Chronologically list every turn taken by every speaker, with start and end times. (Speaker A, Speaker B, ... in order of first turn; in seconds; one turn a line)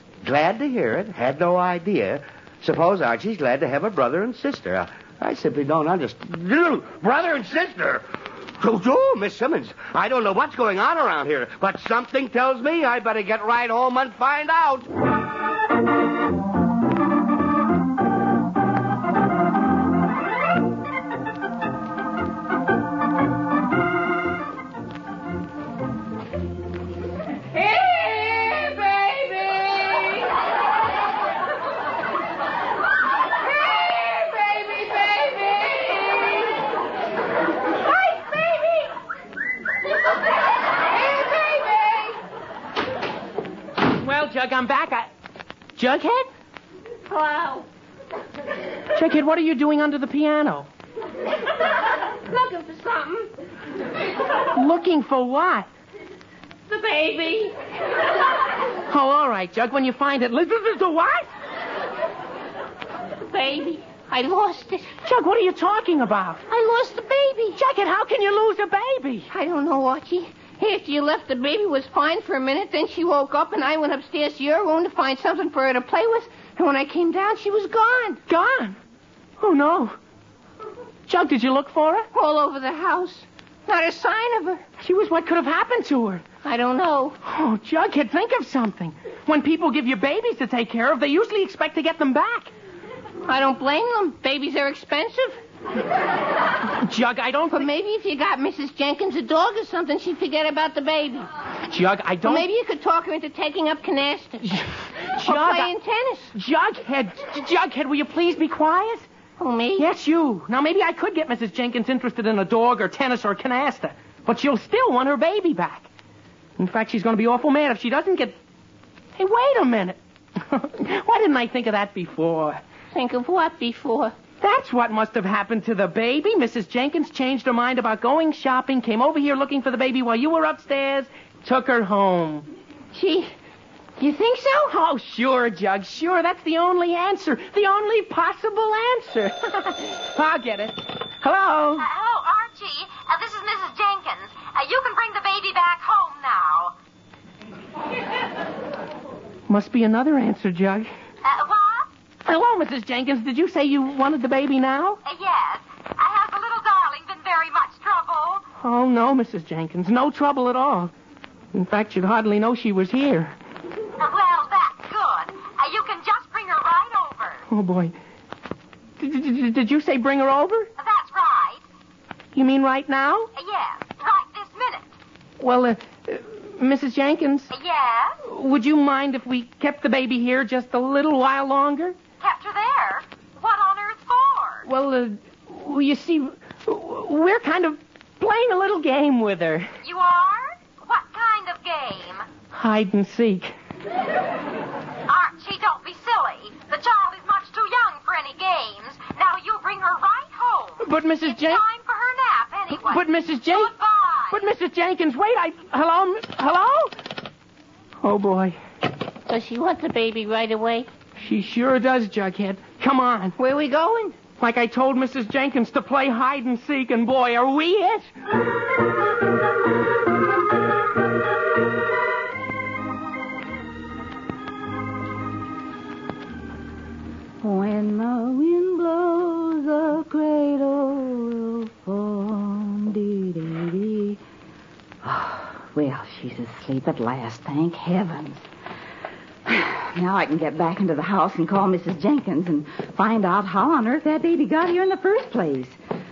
Speaker A: 0.2-14.9
Speaker B: 27.5-30.3
Speaker B: 33.5-36.4
Speaker B: 37.8-38.9
Speaker B: 41.0-42.2
Speaker C: 43.9-45.1
Speaker C: 45.8-46.3
Speaker B: 47.1-47.7
Speaker C: 49.0-50.7
Speaker B: 52.0-53.3
Speaker C: 54.5-55.7
Speaker B: 56.7-57.5
Speaker C: 58.9-61.3
Speaker B: 63.3-64.9
Speaker C: 65.0-66.5
Speaker B: 66.5-67.6
Speaker C: 67.5-69.3
Speaker B: 69.3-78.2
Speaker C: 78.3-78.8
Speaker C: 79.4-80.0
Speaker C: 81.1-82.1
Speaker B: 82.1-84.6
Speaker C: 84.8-86.2
Speaker B: 86.4-87.2
Speaker C: 87.2-92.5
Speaker B: 93.3-95.4
Speaker C: 96.7-97.7
Speaker B: 97.5-101.3
Speaker C: 101.7-102.5
Speaker B: 102.2-104.6
Speaker C: 105.2-105.7
Speaker B: 105.2-106.3
Speaker C: 106.3-109.1
Speaker B: 109.4-109.9
Speaker C: 109.8-115.9
Speaker C: 116.6-118.4
Speaker C: 119.2-122.6
Speaker B: 122.9-124.1
Speaker C: 124.4-132.4
Speaker B: 132.9-133.3
Speaker B: 134.0-134.7
Speaker C: 134.4-141.9
Speaker D: 141.8-146.8
Speaker C: 149.5-150.9
Speaker D: 151.2-151.9
Speaker C: 152.3-155.0
Speaker D: 155.1-158.4
Speaker C: 158.6-160.9
Speaker C: 161.5-163.4
Speaker D: 164.0-167.4
Speaker C: 167.5-167.9
Speaker C: 169.0-170.7
Speaker D: 170.8-171.6
Speaker C: 172.3-173.3
Speaker D: 173.3-174.9
Speaker C: 175.4-177.5
Speaker D: 177.5-178.2
Speaker C: 178.2-182.0
Speaker D: 182.2-184.7
Speaker C: 184.7-189.7
Speaker D: 189.8-192.3
Speaker C: 192.5-193.5
Speaker D: 195.1-204.4
Speaker C: 200.8-201.6
Speaker C: 202.8-203.7
Speaker C: 204.3-206.9
Speaker C: 208.0-208.6
Speaker B: 209.3-210.9
Speaker C: 211.2-213.4
Speaker B: 213.4-214.2
Speaker C: 214.4-218.1
Speaker E: 227.4-234.2
Speaker E: 235.0-238.4
Speaker E: 239.5-245.8